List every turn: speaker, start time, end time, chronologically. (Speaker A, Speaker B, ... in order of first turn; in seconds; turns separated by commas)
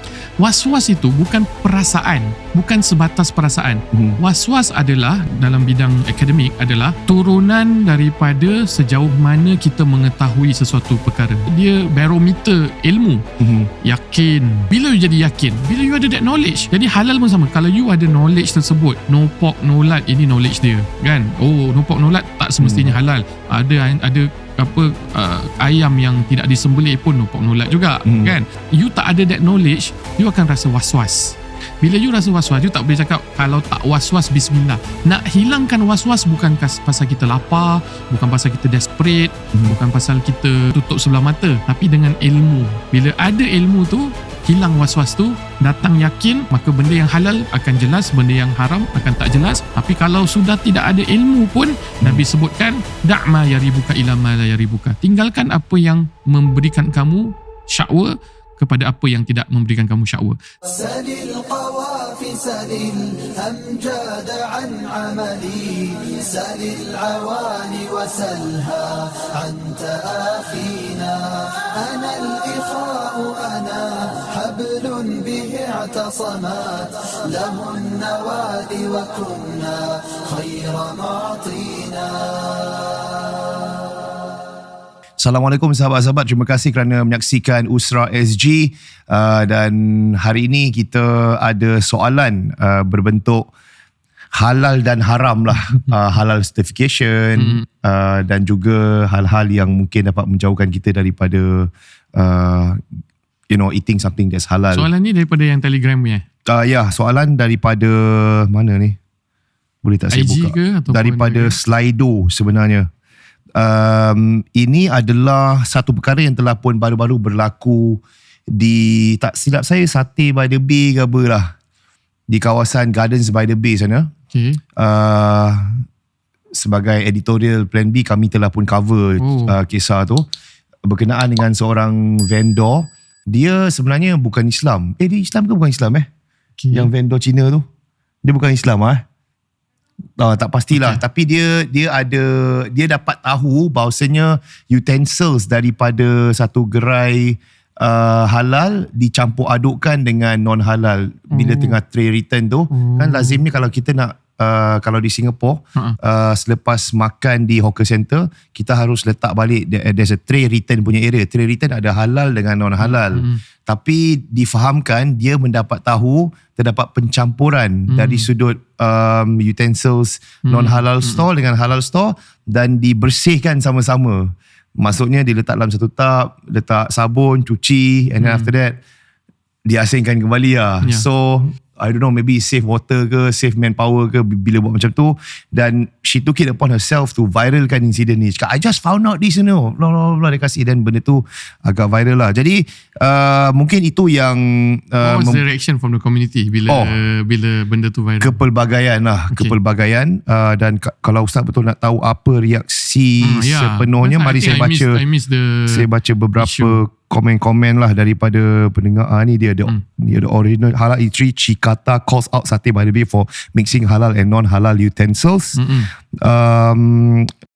Speaker A: 0.4-13.2, Speaker B: 3.9-4.2, Speaker B: 13.4-13.7, Speaker A: 13.8-60.4, Speaker B: 22.6-23.0, Speaker B: 28.0-28.3, Speaker C: 60.6-82.9, Speaker B: 85.2-93.5, Speaker B: 94.3-102.8, Speaker A: 97.4-97.6, Speaker B: 103.5-104.9, Speaker A: 104.7-106.2, Speaker B: 106.5-109.0, Speaker B: 109.8-112.9, Speaker A: 110.1-111.5, Speaker B: 113.5-118.0, Speaker B: 118.5-121.5, Speaker B: 122.3-124.1, Speaker A: 124.3-124.6, Speaker B: 124.8-125.8, Speaker B: 126.5-130.2, Speaker A: 129.2-129.5, Speaker B: 130.8-136.1, Speaker A: 136.6-136.9, Speaker B: 136.7-137.6, Speaker B: 138.2-139.0, Speaker B: 140.2-178.8, Speaker A: 140.7-141.0, Speaker A: 151.3-151.8, Speaker A: 152.7-153.4, Speaker A: 162.8-163.4, Speaker A: 167.9-168.3, Speaker A: 170.4-171.2, Speaker A: 178.2-178.5, Speaker B: 179.7-195.4, Speaker A: 195.0-198.3, Speaker B: 196.7-196.9, Speaker B: 198.2-205.0, Speaker A: 203.2-206.8, Speaker B: 205.7-215.6, Speaker A: 215.6-215.9, Speaker B: 216.1-217.3